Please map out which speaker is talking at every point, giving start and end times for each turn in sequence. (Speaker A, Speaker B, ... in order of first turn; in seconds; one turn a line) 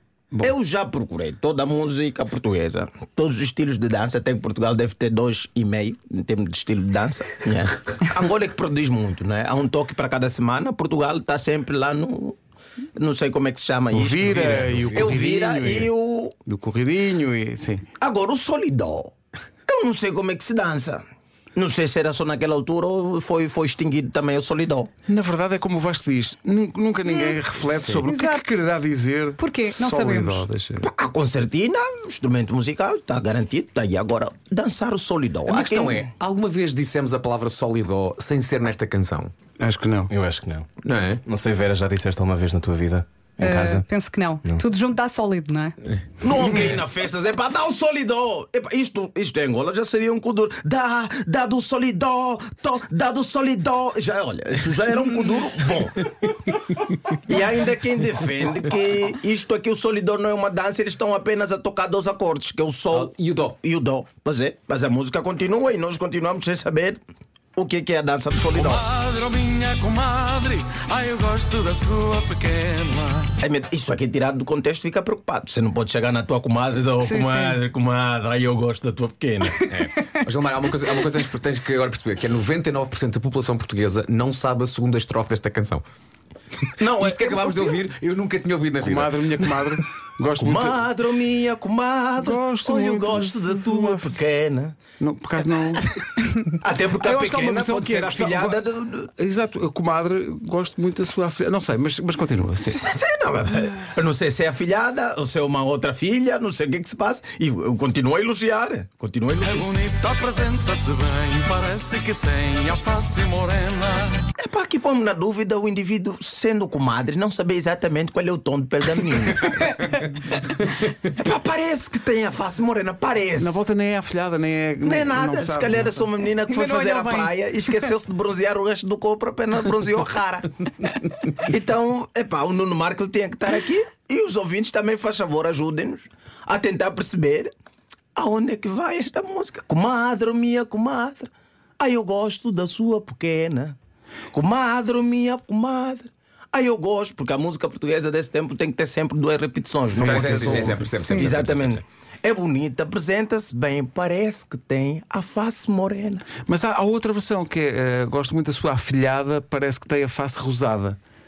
Speaker A: 0.4-12.4
Speaker A: 12.9-16.3
Speaker B: 13.9-15.9
Speaker C: 14.9-15.2
Speaker B: 16.4-17.9
Speaker A: 18.0-19.1
Speaker A: 19.7-21.0
Speaker A: 21.5-24.9
Speaker B: 25.1-30.9
Speaker C: 27.7-28.1
Speaker D: 28.0-28.6
Speaker D: 29.4-30.4
Speaker A: 30.8-36.1
Speaker C: 35.5-39.3
Speaker B: 39.6-40.1
Speaker E: 40.1-40.7
Speaker C: 40.8-41.2
Speaker E: 41.2-43.9
Speaker D: 43.4-45.8
Speaker A: 46.2-56.3
Speaker A: 57.1-67.0
Speaker C: 62.9-63.5
Speaker A: 67.5-68.8
Speaker C: 68.5-68.8
Speaker F: 68.8-73.3
Speaker A: 73.4-79.7
Speaker D: 77.0-77.6
Speaker C: 79.7-85.8
Speaker A: 86.8-87.9
Speaker C: 86.8-89.6
Speaker B: 88.8-90.8
Speaker A: 90.4-94.7
Speaker B: 92.2-94.1
Speaker B: 95.0-95.8
Speaker A: 95.8-99.1
Speaker B: 97.0-98.6
Speaker B: 99.1-102.8
Speaker A: 102.7-109.7
Speaker F: 109.5-114.3
Speaker A: 114.4-119.7
Speaker A: 121.1-123.7
Speaker B: 123.4-126.1
Speaker A: 124.8-130.5
Speaker D: 126.5-127.8
Speaker A: 131.3-137.5
Speaker A: 138.1-143.8
Speaker A: 144.3-156.3
Speaker C: 149.9-151.8
Speaker B: 149.9-150.8
Speaker B: 156.5-161.0